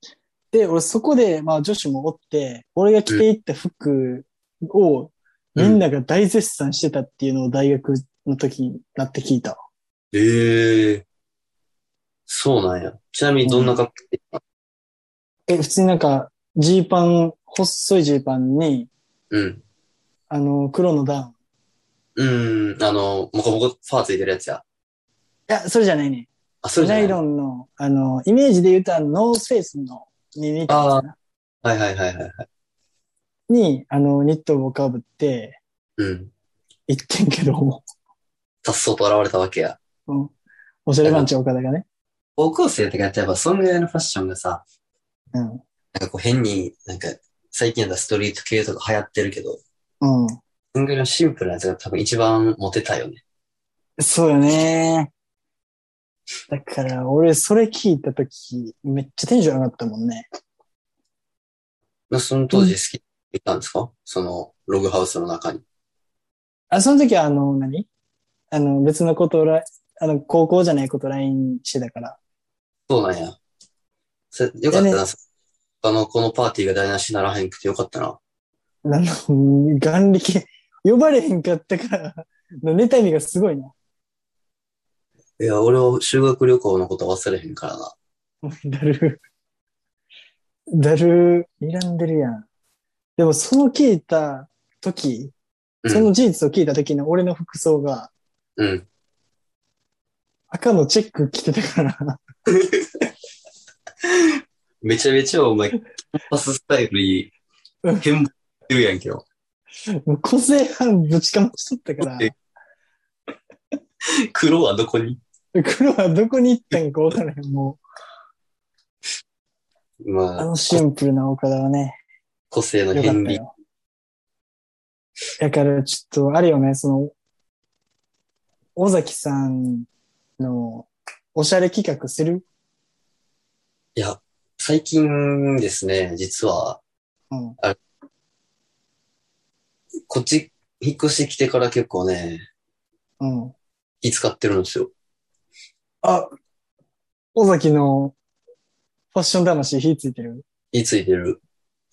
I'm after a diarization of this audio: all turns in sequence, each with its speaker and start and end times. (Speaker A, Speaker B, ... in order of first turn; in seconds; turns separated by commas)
Speaker A: 0.5-9.6, Speaker B: 5.5-5.8, Speaker B: 10.1-11.0, Speaker B: 12.3-14.4, Speaker A: 13.4-13.8, Speaker A: 15.5-18.9, Speaker B: 19.3-19.6, Speaker A: 20.3-21.3, Speaker B: 22.1-24.6, Speaker A: 25.5-31.1, Speaker B: 26.6-27.2, Speaker B: 30.7-31.0, Speaker B: 31.6-32.5, Speaker A: 33.5-35.6, Speaker B: 36.0-36.3, Speaker A: 36.9-37.8, Speaker B: 38.6-39.8, Speaker A: 40.1-40.3, Speaker A: 40.9-41.9, Speaker B: 42.4-44.6, Speaker A: 45.3-45.6, Speaker B: 45.9-49.6, Speaker A: 50.0-50.4, Speaker B: 50.7-53.2, Speaker A: 54.0-55.1, Speaker A: 56.5-60.3, Speaker B: 62.1-65.6, Speaker A: 66.7-67.9, Speaker A: 68.5-72.2, Speaker B: 72.9-73.4, Speaker B: 74.3-75.2, Speaker A: 74.7-75.0, Speaker B: 75.8-78.2, Speaker A: 78.8-83.7, Speaker B: 85.4-87.9, Speaker A: 88.4-89.2, Speaker A: 90.7-92.4, Speaker A: 93.2-95.3, Speaker B: 95.8-96.1, Speaker A: 95.9-98.1, Speaker B: 98.6-98.9, Speaker A: 100.5-102.2, Speaker B: 102.5-102.9, Speaker B: 104.0-107.3, Speaker B: 108.0-109.2, Speaker A: 110.1-112.3, Speaker B: 112.0-112.3, Speaker B: 114.0-115.2, Speaker A: 115.5-117.8, Speaker B: 120.0-120.8, Speaker A: 120.4-122.0, Speaker B: 122.5-123.4, Speaker A: 122.9-123.5, Speaker A: 125.4-127.1, Speaker A: 128.8-129.9, Speaker A: 130.4-132.4, Speaker B: 133.9-136.8, Speaker A: 137.3-137.6, Speaker B: 140.1-142.5, Speaker A: 143.2-143.5, Speaker B: 144.0-144.9, Speaker A: 146.0-146.3, Speaker A: 147.3-148.1, Speaker A: 149.1-150.4, Speaker B: 150.7-151.4